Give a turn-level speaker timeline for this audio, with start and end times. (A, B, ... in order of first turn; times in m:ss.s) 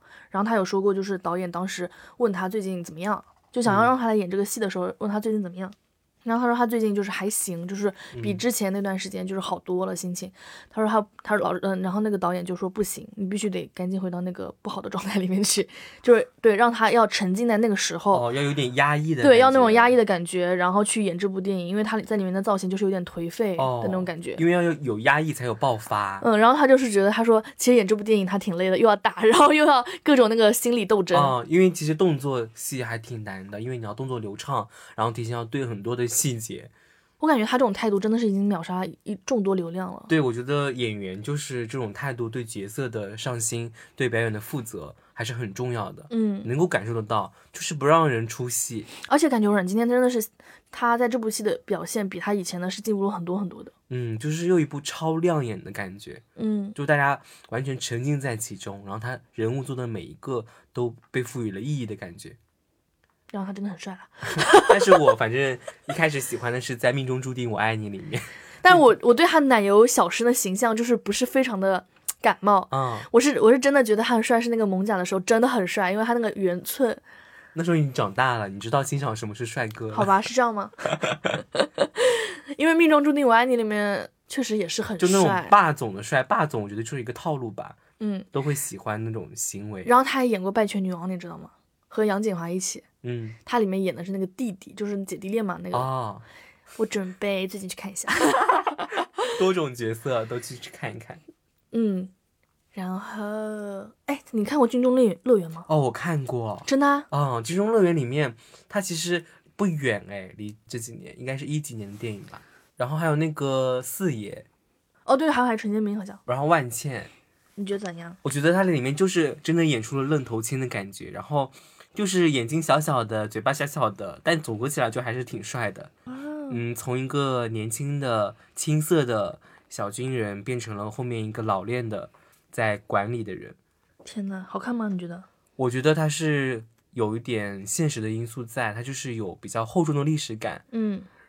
0:00.3-0:18.3 A
0:03.7-0:03.9 B
0:08.1-0:08.4 B
0:18.1-0:20.0 B
0:19.2-0:24.4 A
0:23.6-0:26.3 B
0:26.2-0:31.3 A
0:31.1-0:36.7 B
0:37.2-0:40.1 A
0:40.1-0:48.9 B
0:46.1-0:46.5 A
0:49.1-0:53.7 A
0:53.9-0:56.2 B
0:56.4-0:56.8 A
0:56.8-1:02.4 B
1:03.3-1:05.0 A
1:04.5-1:08.8 B
1:08.6-1:17.0 A
1:12.7-1:13.1 B
1:17.6-1:20.1 B
1:19.9-1:21.0 A
1:21.5-1:25.6 A
1:25.0-1:27.8 B
1:28.0-1:28.3 A
1:28.3-1:29.9 B
1:29.8-1:32.8 A
1:33.0-1:33.4 B
1:33.4-1:35.9 A
1:35.7-1:36.2 B
1:36.8-1:38.9 A
1:39.3-1:41.2 B
1:41.7-1:42.1 A
1:42.7-1:45.7 A
1:45.7-1:54.5 B
1:46.7-1:47.1 A
1:55.1-1:56.2 A
1:56.3-1:57.1 B
1:57.6-1:58.2 A
1:58.2-2:05.9 B
2:06.1-2:06.6 A
2:06.5-2:13.6 B
2:14.0-2:15.3 A
2:15.6-2:20.6 B
2:20.7-2:21.1 A